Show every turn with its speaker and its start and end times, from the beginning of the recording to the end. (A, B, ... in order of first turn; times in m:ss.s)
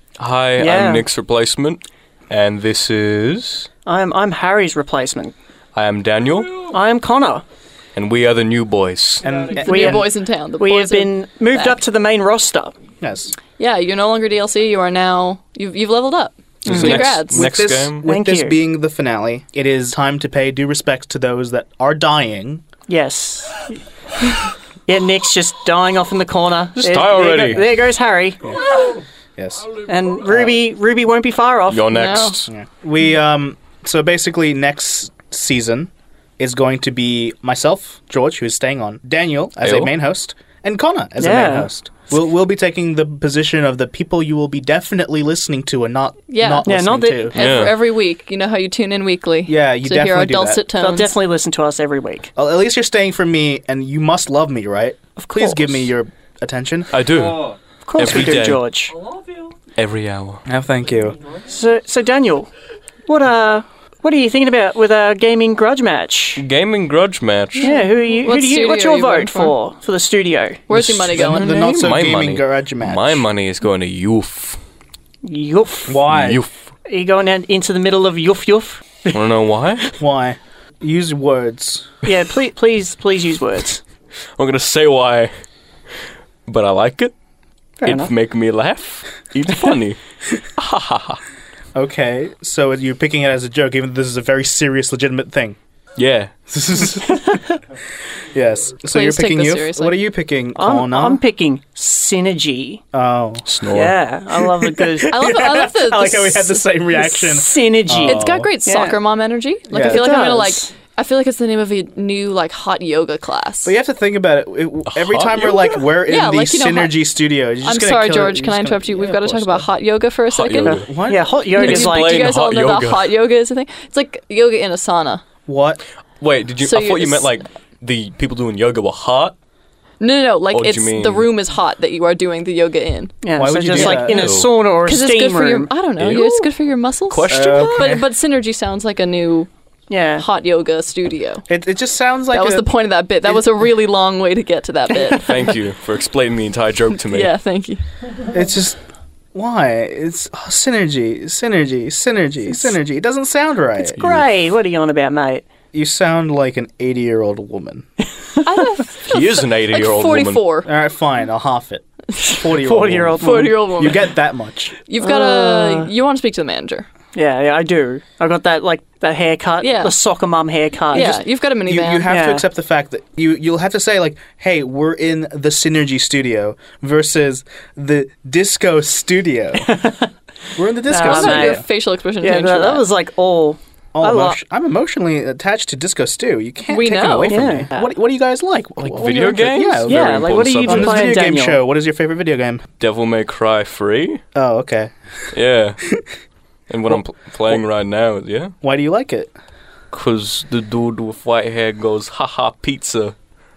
0:00.2-0:03.7 A
0:00.6-0:01.1 B
0:03.8-0:05.3 B
0:05.7-0:06.6 A
0:06.7-0:07.4 B
0:07.9-0:09.2 A
0:09.2-0:10.1 C
0:09.5-0:11.8 D
0:09.6-0:10.1 B
0:10.6-0:12.8 B
0:13.0-0:13.3 C
0:13.6-0:17.4 D
0:16.6-0:18.1 A
0:16.6-0:22.6 C
0:16.7-0:17.0 B
0:18.0-0:18.6 B
0:22.9-0:23.8 B
0:24.8-0:28.5 B
0:26.8-0:27.6 A
0:29.4-0:29.7 C
0:29.9-0:32.3 B
0:30.3-0:30.5 C
0:31.7-0:32.5 A
0:31.9-0:32.3 D
0:32.5-0:47.4 C
0:39.6-0:39.9 A
0:41.2-0:41.7 B
0:46.3-0:46.7 D
0:46.6-0:47.3 B
0:47.3-0:51.2 D
0:47.3-0:47.8 A
0:49.5-0:50.6 C
0:50.8-0:52.3 B
0:52.4-0:56.9 C
0:55.2-0:55.9 B
0:56.9-0:58.6 A
0:57.8-0:59.1 B
0:59.8-1:00.4 A
1:00.4-1:01.2 C
1:01.5-1:02.5 B
1:03.0-1:06.4 B
1:06.4-1:07.8 A
1:07.6-1:09.6 D
1:07.6-1:10.6 B
1:10.7-1:11.7 D
1:10.7-1:13.2 C
1:11.1-1:14.6 A
1:15.2-1:16.0 B
1:15.9-1:16.4 C
1:16.0-1:16.5 A
1:16.8-1:19.2 B
1:19.1-1:19.9 A
1:20.0-1:21.9 C
1:22.0-1:23.8 B
1:24.4-1:25.3 A
1:26.5-1:27.1 A
1:27.8-1:28.1 B
1:27.8-1:30.0 A
1:30.6-1:31.2 A
1:31.7-1:35.6 C
1:36.0-1:36.3 A
1:36.5-1:37.4 C
1:38.3-1:41.2 C
1:38.9-1:40.0 D
1:40.6-1:42.8 B
1:42.9-1:43.4 C
1:43.4-1:44.0 A
1:43.7-1:45.1 B
1:44.8-1:48.5 C
1:45.1-1:47.1 D
1:47.1-1:49.0 B
1:47.9-1:53.7 D
1:49.7-1:50.0 C
1:49.8-1:50.7 B
1:53.6-1:59.7 C
1:54.9-1:55.7 A
1:56.0-1:57.0 D
1:57.6-2:00.8 D
2:00.3-2:00.8 A
2:00.6-2:01.3 C
2:00.7-2:02.3 B
2:01.5-2:03.1 A
2:01.5-2:05.2 D
2:05.4-2:05.8 C
2:06.2-2:09.4 A
2:06.6-2:07.4 D
2:10.0-2:13.1 D
2:10.5-2:11.3 A
2:13.2-2:15.7 B
2:13.4-2:14.3 C
2:13.7-2:14.5 A
2:14.8-2:19.5 D
2:16.0-2:16.4 A
2:17.1-2:18.0 A
2:17.3-2:18.0 C
2:19.9-2:20.2 B
2:20.2-2:21.4 D
2:21.5-2:22.7 C
2:22.3-2:25.5 D
2:24.9-2:25.2 B
2:25.2-2:27.3 A
2:27.0-2:27.8 D
2:28.3-2:28.8 C
2:29.3-2:34.0 C
2:34.0-2:34.2 A
2:34.0-2:35.4 B
2:35.7-2:37.8 C
2:38.4-2:38.7 B
2:38.4-2:40.7 D
2:39.0-2:40.4 A
2:40.6-2:44.8 C
2:42.4-2:43.6 B
2:43.2-2:44.1 D
2:44.9-2:46.9 D
2:45.0-2:45.9 B
2:47.1-2:51.2 B
2:49.6-2:49.9 D
2:50.9-2:52.1 D
2:50.9-2:59.7 C
2:52.0-2:52.5 B
2:59.5-3:00.1 B
3:00.6-3:01.6 C
3:00.8-3:01.6 B
3:01.0-3:02.9 D
3:02.2-3:04.4 B
3:03.9-3:12.6 C
3:06.7-3:07.4 D
3:07.3-3:07.9 B
3:08.8-3:11.1 A
3:09.8-3:11.6 B
3:12.8-3:14.2 A
3:14.3-3:14.9 C
3:15.3-3:15.8 A
3:16.7-3:18.5 A
3:18.6-3:19.3 C
3:19.9-3:23.1 A